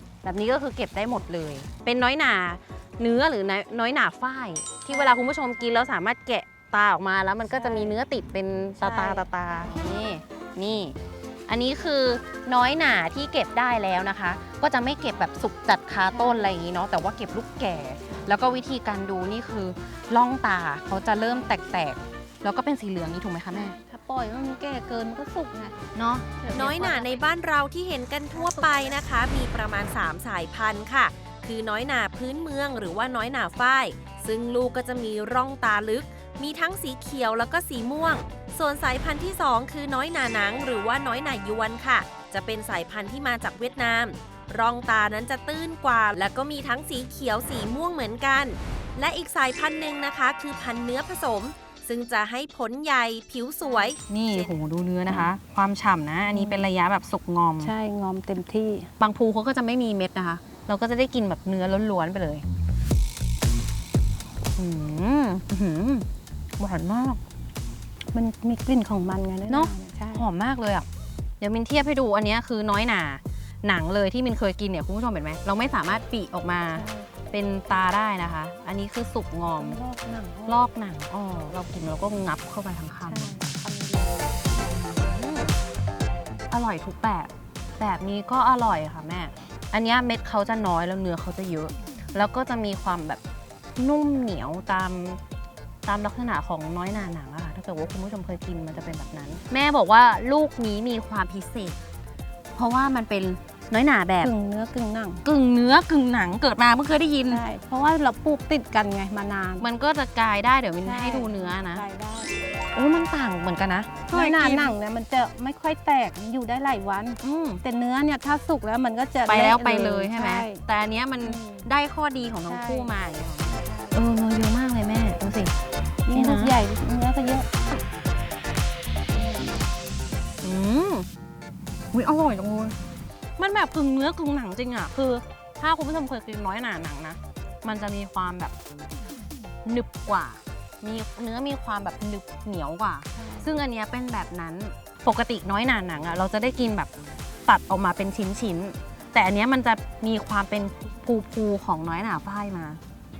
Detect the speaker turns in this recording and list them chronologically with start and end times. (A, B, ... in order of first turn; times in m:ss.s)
0:00.2-0:11.0 A
0:04.9-0:05.2 B
0:07.4-0:08.0 B
0:08.8-0:09.3 B
0:11.5-0:23.8 A
0:16.1-0:16.5 B
0:18.1-0:18.4 B
0:21.1-0:21.6 B
0:23.5-0:25.8 B
0:26.0-0:26.3 A
0:26.4-0:27.2 B
0:26.5-0:54.5 C
0:28.3-0:29.0 B
0:53.6-0:53.9 B
0:54.1-0:57.7 A
0:56.3-0:56.7 B
0:57.6-0:58.9 B
0:59.0-1:02.4 A
1:04.6-1:06.1 A
1:06.6-1:07.2 A
1:08.1-1:10.2 B
1:09.5-1:10.9 A
1:11.4-1:19.8 A
1:16.7-1:17.1 B
1:19.6-1:20.6 B
1:20.5-1:23.4 A
1:23.0-1:24.3 B
1:24.6-1:25.6 A
1:26.5-1:33.2 A
1:33.8-1:35.2 A
1:35.8-1:41.8 A
1:42.6-1:44.3 A
1:44.2-1:45.2 B
1:45.2-1:47.4 A
1:47.3-1:49.7 B
1:49.6-1:51.8 A
1:50.8-1:52.3 B
1:52.8-1:54.8 A
1:54.1-2:00.6 B
1:57.2-1:57.6 A
1:59.2-2:05.5 A
2:01.2-2:01.7 B
2:02.5-2:02.9 B
2:03.5-2:04.0 B
2:06.1-2:07.5 B
2:06.1-2:06.6 A
2:10.4-2:11.1 A
2:11.9-2:12.8 A
2:13.4-2:18.5 A
2:19.6-2:26.9 A
2:23.1-2:23.5 B
2:27.5-2:32.8 A